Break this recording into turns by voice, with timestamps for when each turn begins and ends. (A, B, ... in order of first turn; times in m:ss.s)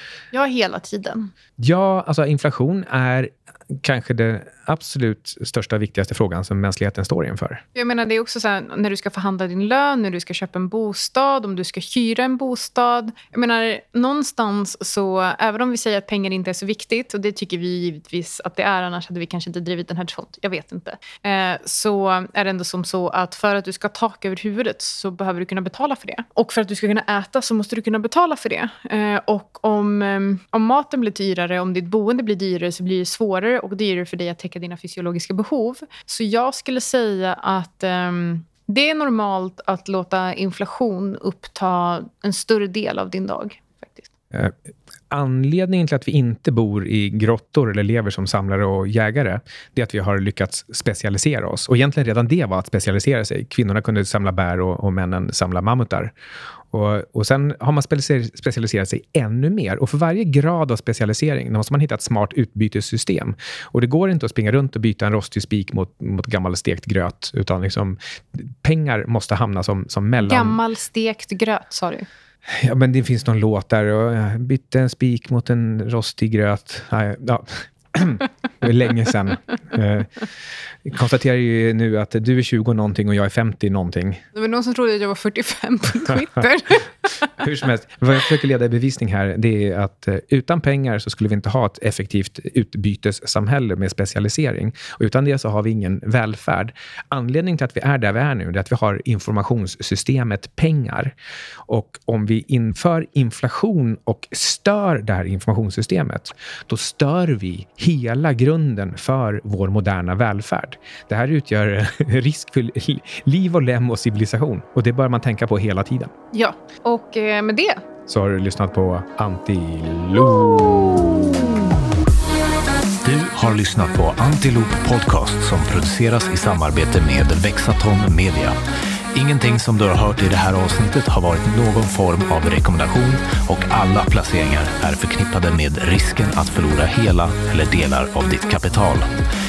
0:00.3-0:01.3 A
0:01.6-0:07.6 B
0:07.8-0:44.1 A
0:45.1-0:56.1 B
0:56.7-1:10.6 B
1:10.2-1:12.1 A
1:12.5-1:20.1 B
1:20.8-1:24.2 B
1:24.3-1:27.3 A
1:27.3-1:41.1 B
1:41.7-1:56.1 B
1:56.3-1:57.8 A
1:58.1-2:01.4 B
2:03.0-2:08.6 C
2:09.1-2:19.1 C